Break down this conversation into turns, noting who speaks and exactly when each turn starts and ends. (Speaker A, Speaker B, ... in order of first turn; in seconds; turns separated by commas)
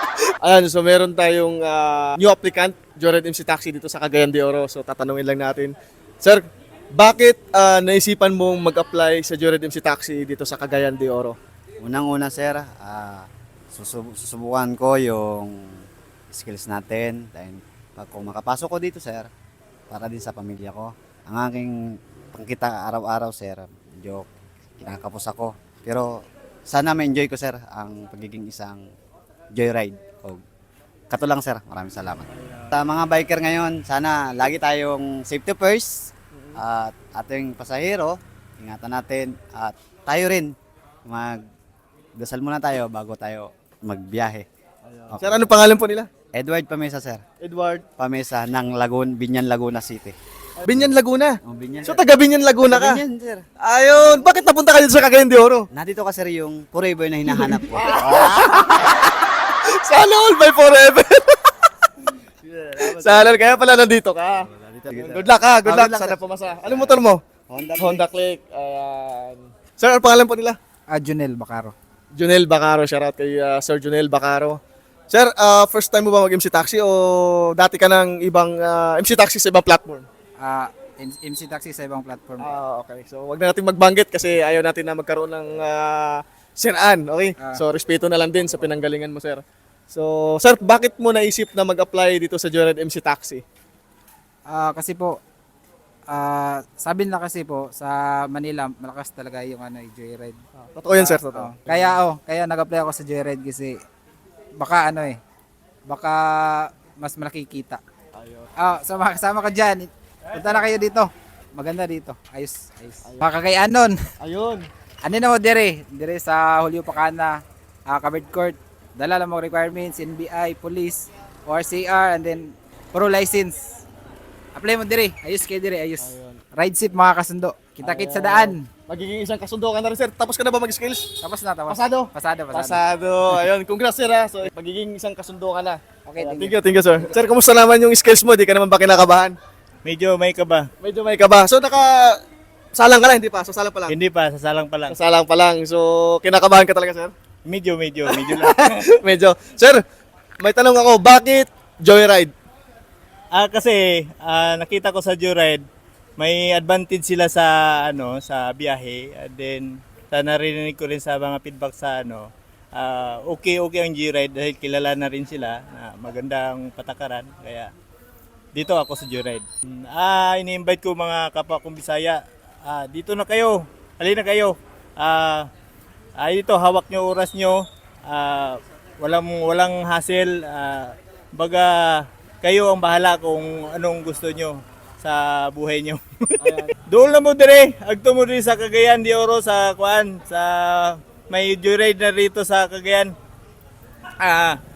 Speaker A: 0.4-11.4, Speaker B: 11.8-19.3, Speaker B: 19.9-21.8, Speaker B: 22.3-24.3, Speaker B: 24.8-28.8, Speaker B: 29.6-30.4, Speaker B: 31.1-40.5, Speaker A: 32.4-32.7, Speaker A: 36.3-36.6, Speaker B: 41.1-41.4, Speaker B: 42.2-44.5, Speaker A: 44.9-46.1, Speaker B: 45.1-45.5, Speaker B: 46.4-47.2, Speaker A: 47.4-47.9, Speaker B: 48.0-50.2, Speaker A: 50.6-53.0, Speaker B: 51.5-52.0, Speaker B: 52.7-54.2, Speaker A: 53.6-55.7, Speaker B: 55.7-58.3, Speaker A: 57.3-61.7, Speaker B: 62.4-63.6, Speaker A: 62.8-67.2, Speaker B: 64.4-68.0, Speaker A: 67.8-70.6, Speaker C: 70.9-71.7, Speaker A: 72.2-74.6, Speaker A: 75.1-80.1, Speaker C: 80.4-82.5, Speaker A: 82.4-93.4, Speaker C: 94.5-95.2, Speaker C: 96.1-100.4, Speaker A: 100.6-102.0, Speaker C: 101.0-103.8, Speaker C: 104.6-105.2, Speaker C: 105.9-107.8, Speaker A: 108.1-108.5, Speaker C: 108.6-114.0, Speaker A: 113.0-113.3, Speaker A: 114.2-114.7, Speaker C: 115.0-123.8, Speaker C: 124.5-128.7, Speaker A: 126.0-126.4, Speaker A: 127.8-139.4, Speaker C: 131.2-132.8, Speaker C: 136.1-137.1, Speaker D: 139.8-140.7, Speaker A: 140.8-142.2, Speaker A: 142.7-143.9, Speaker D: 143.9-145.0, Speaker A: 144.9-147.1, Speaker D: 147.4-148.9, Speaker A: 148.1-149.8, Speaker A: 150.4-152.3, Speaker D: 153.3-155.6, Speaker D: 156.2-167.7, Speaker D: 168.6-175.5, Speaker D: 176.2-193.1, Speaker A: 186.4-186.7, Speaker D: 194.2-194.6